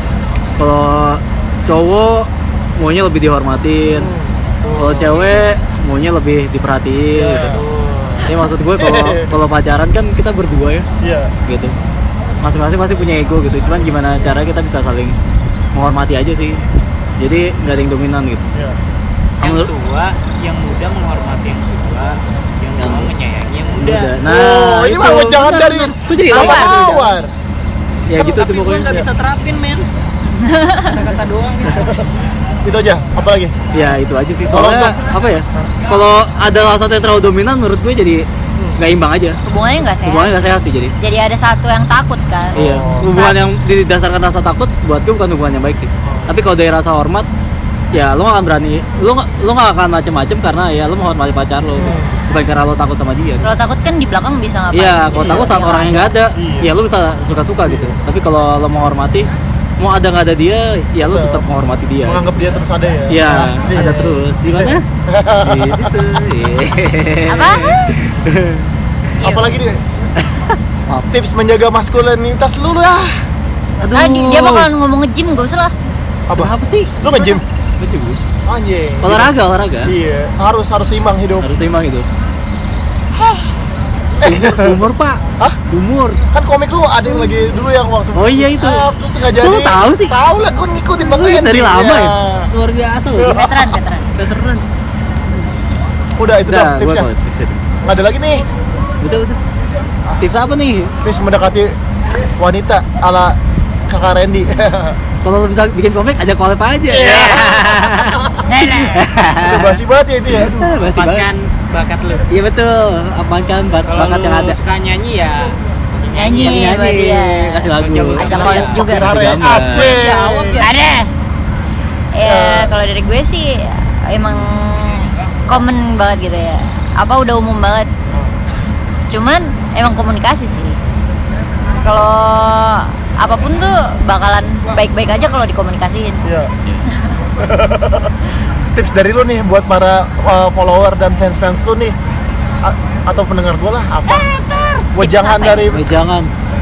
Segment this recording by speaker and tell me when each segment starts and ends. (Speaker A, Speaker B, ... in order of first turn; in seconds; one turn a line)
Speaker A: 0.6-4.1
Speaker B: 3.9-5.3
Speaker A: 4.8-7.5
Speaker B: 7.1-7.6
Speaker C: 7.4-8.3
Speaker A: 8.2-10.9
Speaker B: 8.8-9.3
Speaker B: 11.0-11.3
Speaker A: 11.4-11.7
Speaker A: 12.4-15.2
Speaker A: 15.7-16.6
Speaker A: 17.2-18.4
Speaker A: 19.4-19.7
Speaker C: 19.4-24.1
Speaker A: 22.8-23.1
Speaker A: 23.8-27.2
Speaker B: 24.2-27.3
Speaker C: 26.3-26.8
Speaker A: 28.1-28.9
Speaker C: 28.2-29.9
Speaker B: 28.2-29.1
Speaker D: 30.4-30.9
Speaker C: 30.9-32.1
Speaker B: 31.7-31.9
Speaker B: 32.6-33.5
Speaker A: 33.7-39.4
Speaker B: 34.5-35.0
Speaker D: 39.5-43.4
Speaker A: 40.0-40.9
Speaker B: 42.5-43.1
Speaker A: 42.5-47.2
Speaker B: 46.0-46.4
Speaker A: 47.9-53.5
Speaker B: 51.8-52.2
Speaker D: 53.4-56.2
Speaker A: 54.7-59.3
Speaker B: 55.1-55.5
Speaker B: 56.4-56.7
Speaker B: 57.6-58.0
Speaker A: 59.8-62.3
Speaker B: 61.0-61.4
Speaker B: 62.0-66.0
Speaker A: 63.1-64.8
Speaker A: 65.4-68.7
Speaker D: 67.3-68.0
Speaker D: 69.2-69.6
Speaker B: 69.2-69.8
Speaker A: 70.2-71.1
Speaker B: 71.1-73.1
Speaker A: 73.8-74.7
Speaker D: 73.9-75.7
Speaker B: 76.3-77.4
Speaker A: 76.3-77.1
Speaker A: 77.8-78.2
Speaker B: 78.5-79.3
Speaker A: 79.0-79.9
Speaker B: 79.8-81.5
Speaker A: 81.4-82.1
Speaker B: 83.1-83.5
Speaker B: 84.2-84.8
Speaker A: 84.2-86.2
Speaker B: 86.3-92.5
Speaker D: 87.0-87.6
Speaker A: 88.1-88.8
Speaker A: 89.4-90.1
Speaker A: 91.0-93.5
Speaker B: 93.2-93.7
Speaker D: 93.2-94.1
Speaker A: 94.1-94.6
Speaker B: 96.2-97.1
Speaker A: 96.5-97.6
Speaker B: 97.8-98.4
Speaker A: 99.0-99.4
Speaker A: 100.2-100.9
Speaker B: 101.0-101.7
Speaker B: 102.4-105.0
Speaker A: 105.2-108.2
Speaker B: 106.9-108.4
Speaker D: 108.5-109.1
Speaker A: 108.9-109.8
Speaker B: 109.4-110.8
Speaker A: 110.3-111.3
Speaker C: 110.9-112.3
Speaker A: 112.3-114.6
Speaker C: 113.9-116.7
Speaker D: 116.1-119.2
Speaker A: 116.4-120.0
Speaker C: 117.7-118.8
Speaker B: 118.3-120.6
Speaker C: 119.4-120.7
Speaker D: 120.5-121.1
Speaker D: 122.1-127.9
Speaker B: 122.2-122.7
Speaker B: 128.1-128.3
Speaker D: 129.1-130.8
Speaker D: 131.8-136.2
Speaker B: 136.2-136.5
Speaker D: 136.9-137.2
Speaker B: 137.4-138.1
Speaker B: 138.7-141.9
Speaker B: 142.6-144.3
Speaker D: 144.1-145.7
Speaker B: 144.9-145.9
Speaker A: 145.7-146.3